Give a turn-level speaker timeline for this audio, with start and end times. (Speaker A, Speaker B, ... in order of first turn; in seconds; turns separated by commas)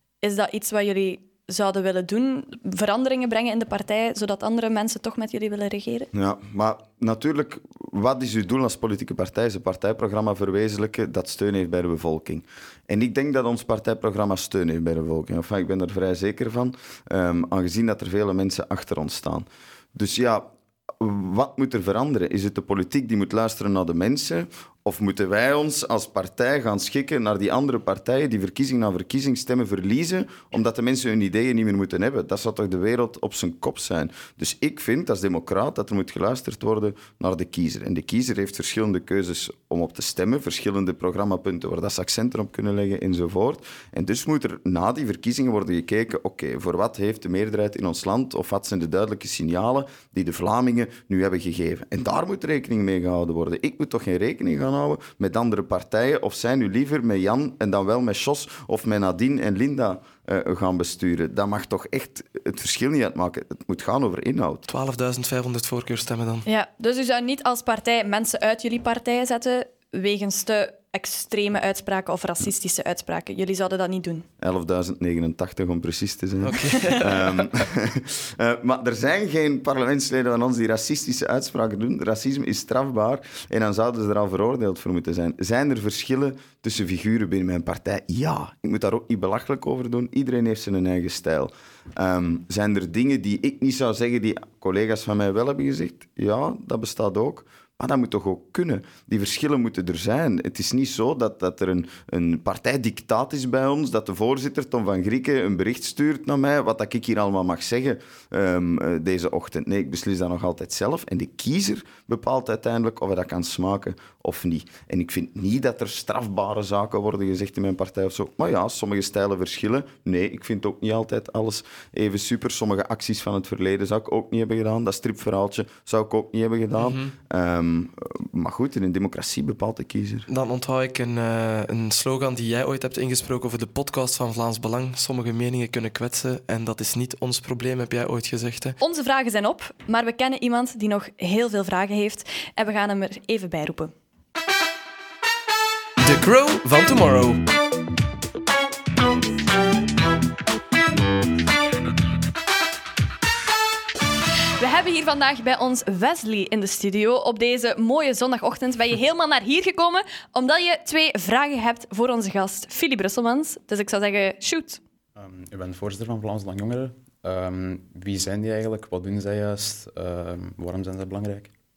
Speaker A: 0.2-6.1, Speaker B: 6.1-20.5, Speaker B: 21.0-64.7, Speaker C: 64.7-66.5, Speaker A: 66.5-74.3, Speaker B: 74.4-130.3, Speaker C: 76.4-77.6, Speaker C: 126.8-127.1, Speaker C: 130.3-138.8, Speaker A: 138.8-143.9, Speaker C: 146.0-147.4, Speaker A: 154.6-164.8, Speaker D: 165.2-171.5